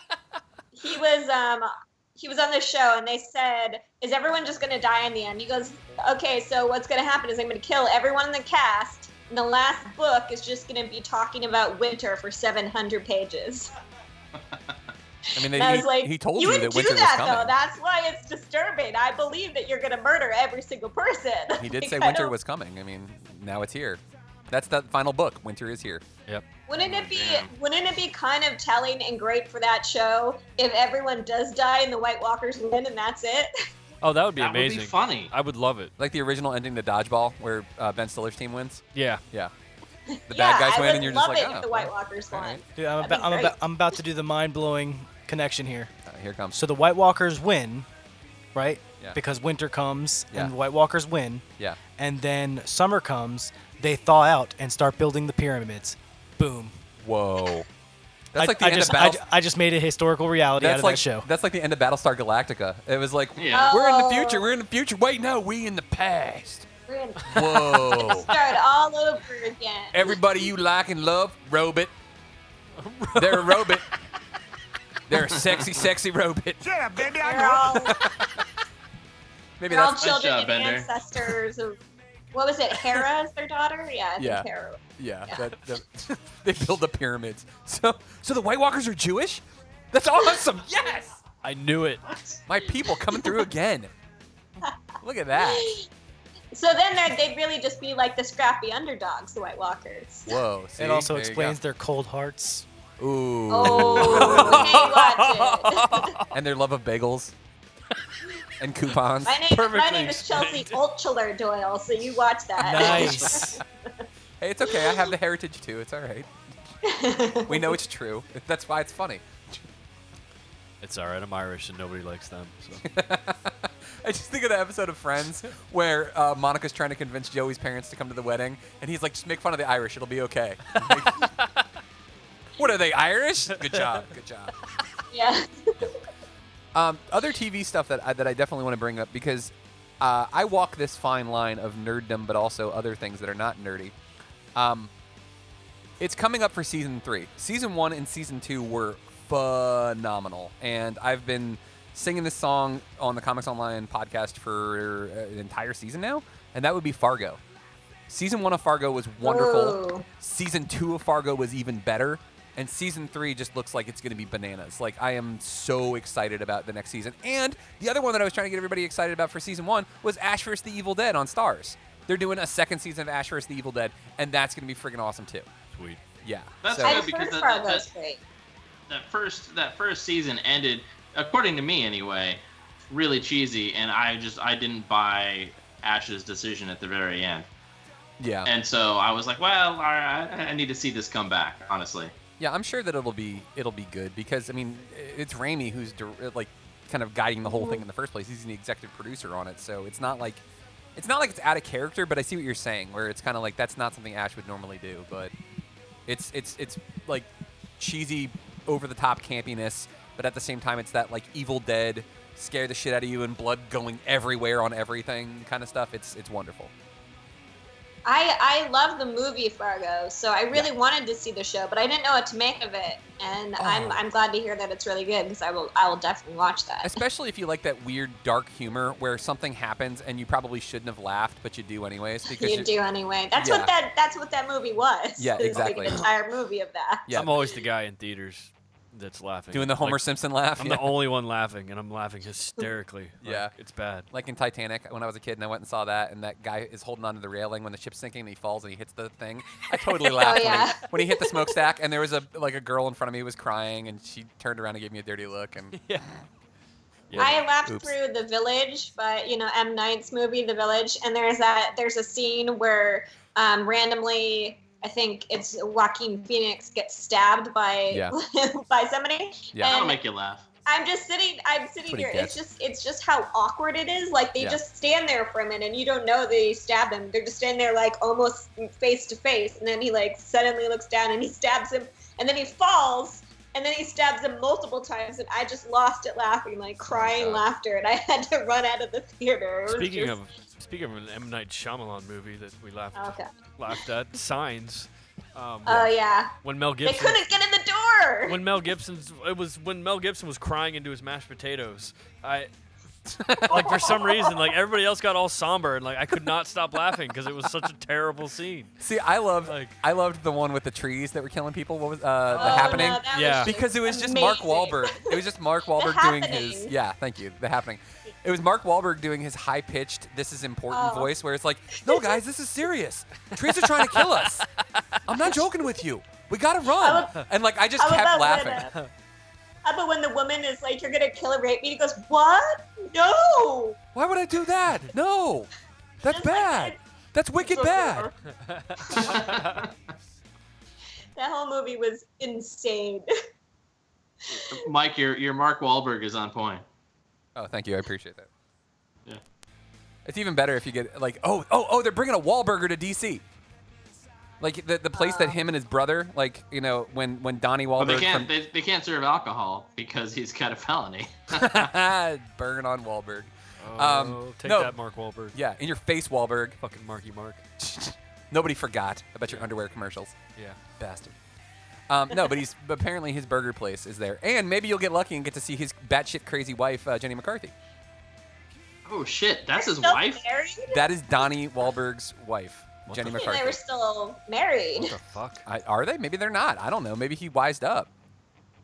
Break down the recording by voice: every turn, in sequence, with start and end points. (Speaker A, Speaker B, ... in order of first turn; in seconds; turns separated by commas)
Speaker A: 0.7-13.7, Speaker B: 15.3-17.5, Speaker A: 15.4-22.3, Speaker B: 21.6-26.0, Speaker A: 26.7-33.5, Speaker C: 26.8-27.5, Speaker D: 34.0-35.9, Speaker C: 34.4-35.3, Speaker B: 36.0-39.5, Speaker D: 38.9-39.2, Speaker A: 40.1-43.5, Speaker B: 40.3-42.6, Speaker E: 42.8-45.9, Speaker B: 46.0-46.6, Speaker E: 46.5-47.9, Speaker E: 48.5-51.4, Speaker E: 52.0-56.7, Speaker B: 57.0-57.7, Speaker B: 58.3-59.2, Speaker E: 58.4-61.3, Speaker B: 60.6-66.7, Speaker C: 63.4-63.7, Speaker A: 63.5-64.5, Speaker A: 66.9-70.2, Speaker B: 67.3-68.3, Speaker B: 69.9-71.9, Speaker D: 72.8-73.8, Speaker B: 73.1-73.8, Speaker B: 75.1-78.4, Speaker A: 77.2-78.1, Speaker B: 79.6-80.0, Speaker A: 79.7-81.8, Speaker C: 80.0-80.9, Speaker A: 82.3-85.5, Speaker B: 84.2-91.2, Speaker D: 91.4-92.0, Speaker B: 92.5-93.9, Speaker A: 93.1-93.4, Speaker B: 95.0-95.7, Speaker A: 95.3-95.9, Speaker A: 96.5-100.4, Speaker B: 100.3-101.6, Speaker E: 100.8-102.7, Speaker B: 103.0-104.9, Speaker A: 103.5-106.1, Speaker D: 103.8-106.2, Speaker B: 106.3-107.3, Speaker B: 108.6-109.4, Speaker A: 109.2-114.0, Speaker D: 109.5-110.8, Speaker E: 112.6-113.5, Speaker B: 112.9-113.4, Speaker B: 114.4-116.3, Speaker A: 114.7-115.1, Speaker A: 116.8-117.8, Speaker B: 117.5-119.6, Speaker D: 120.8-122.8, Speaker B: 122.8-131.3, Speaker D: 130.7-131.5, Speaker B: 132.6-134.6, Speaker D: 133.7-134.0, Speaker A: 135.1-135.8, Speaker B: 136.7-143.9, Speaker B: 144.6-144.9, Speaker B: 146.0-157.4, Speaker B: 158.1-175.5, Speaker A: 159.2-160.1, Speaker D: 175.7-176.0, Speaker B: 176.2-177.0, Speaker C: 176.6-177.8, Speaker A: 176.8-178.2, Speaker C: 178.9-187.5, Speaker B: 188.2-188.5, Speaker C: 188.4-192.1, Speaker B: 192.4-200.4, Speaker A: 197.4-197.8, Speaker B: 200.9-205.3, Speaker B: 206.1-216.7, Speaker A: 218.1-227.0, Speaker B: 223.6-224.0, Speaker B: 226.8-232.7, Speaker A: 232.3-237.1, Speaker B: 233.3-233.7, Speaker B: 235.2-236.0, Speaker B: 237.1-237.3, Speaker D: 237.1-244.1, Speaker B: 239.5-240.9, Speaker B: 243.2-243.5, Speaker B: 244.1-255.8, Speaker A: 250.2-251.6, Speaker D: 255.7-256.1, Speaker D: 257.1-257.4, Speaker B: 257.1-257.9, Speaker A: 257.2-270.0, Speaker C: 269.7-270.4, Speaker A: 270.6-290.2, Speaker B: 271.9-272.4, Speaker B: 286.9-287.4, Speaker D: 289.6-297.2, Speaker A: 292.9-293.3, Speaker A: 295.6-298.4, Speaker D: 298.3-302.5, Speaker B: 303.2-303.8, Speaker D: 303.5-308.7, Speaker B: 308.8-324.4, Speaker D: 309.4-309.8, Speaker D: 312.3-313.5, Speaker A: 312.4-315.2, Speaker A: 315.8-316.7, Speaker A: 320.7-321.1, Speaker A: 321.8-322.2, Speaker D: 323.4-324.4, Speaker B: 325.1-328.7, Speaker A: 326.8-327.2, Speaker A: 327.8-328.7, Speaker A: 329.6-333.8, Speaker B: 333.9-335.5, Speaker B: 336.0-338.1, Speaker A: 336.1-336.8, Speaker A: 337.4-338.1, Speaker D: 338.4-339.6, Speaker C: 339.1-339.6, Speaker A: 341.1-343.1, Speaker C: 344.3-346.6, Speaker B: 347.4-348.3, Speaker B: 350.1-353.2, Speaker B: 354.4-358.3, Speaker A: 354.9-355.4, Speaker C: 357.8-361.7, Speaker B: 361.3-364.8, Speaker D: 363.6-365.4, Speaker B: 365.3-366.6, Speaker D: 366.6-367.4, Speaker B: 367.6-370.2, Speaker B: 370.8-371.1, Speaker B: 371.9-377.5, Speaker C: 378.9-380.2, Speaker A: 379.5-380.8, Speaker B: 380.7-383.6, Speaker D: 382.9-383.1, Speaker A: 383.1-384.9, Speaker D: 384.8-385.4, Speaker B: 385.4-387.9